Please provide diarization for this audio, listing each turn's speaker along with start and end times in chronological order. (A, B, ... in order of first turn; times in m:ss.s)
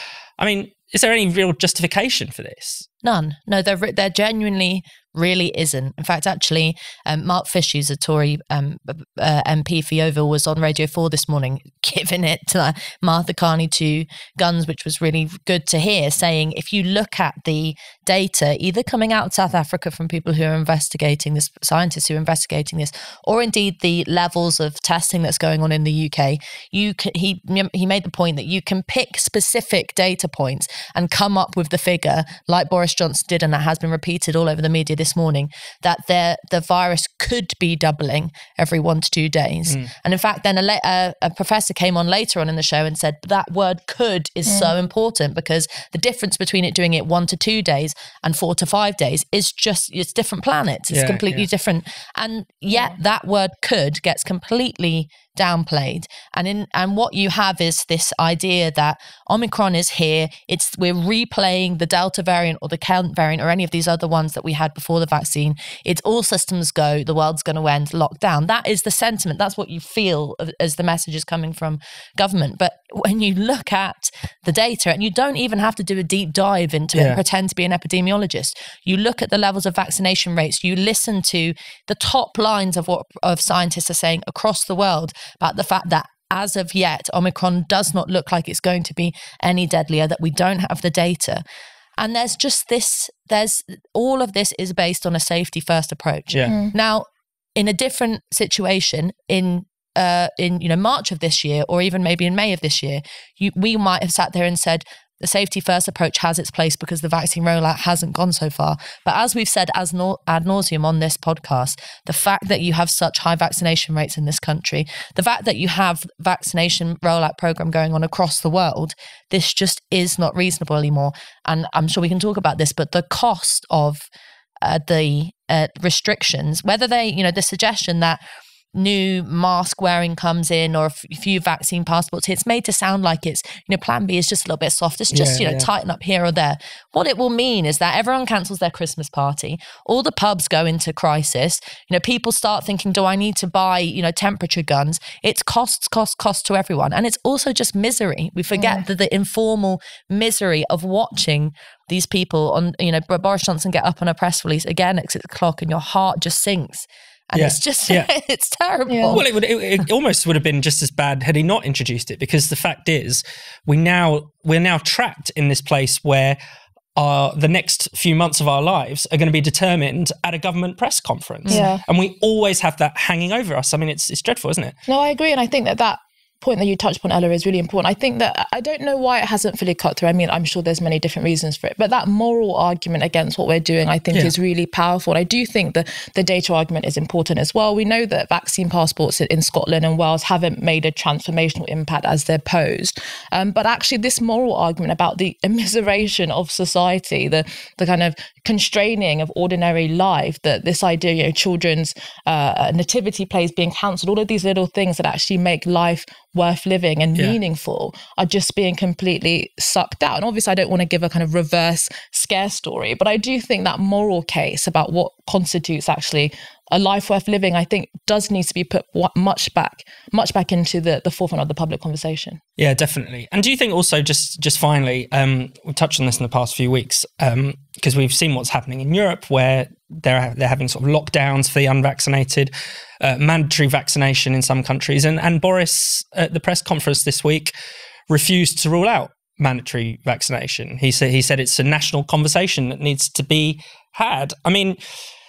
0:00.4-0:02.8 A
0:03.0-1:31.4 B
0:44.5-0:44.7 C
0:50.9-0:51.4 A
1:16.9-1:17.2 A
1:32.0-2:04.1 B
1:36.5-1:36.7 C
2:04.6-2:08.2 B
2:08.7-2:39.2 B
2:15.1-2:15.7 A
2:28.6-2:28.8 C
2:37.4-2:38.1 A
2:38.9-2:39.2 C
2:39.1-2:46.4 A
2:47.0-2:54.7 A
2:51.4-2:51.7 B
2:51.5-2:51.8 C
2:54.9-3:42.4 C
3:42.6-3:57.5 A
3:58.1-4:04.8 A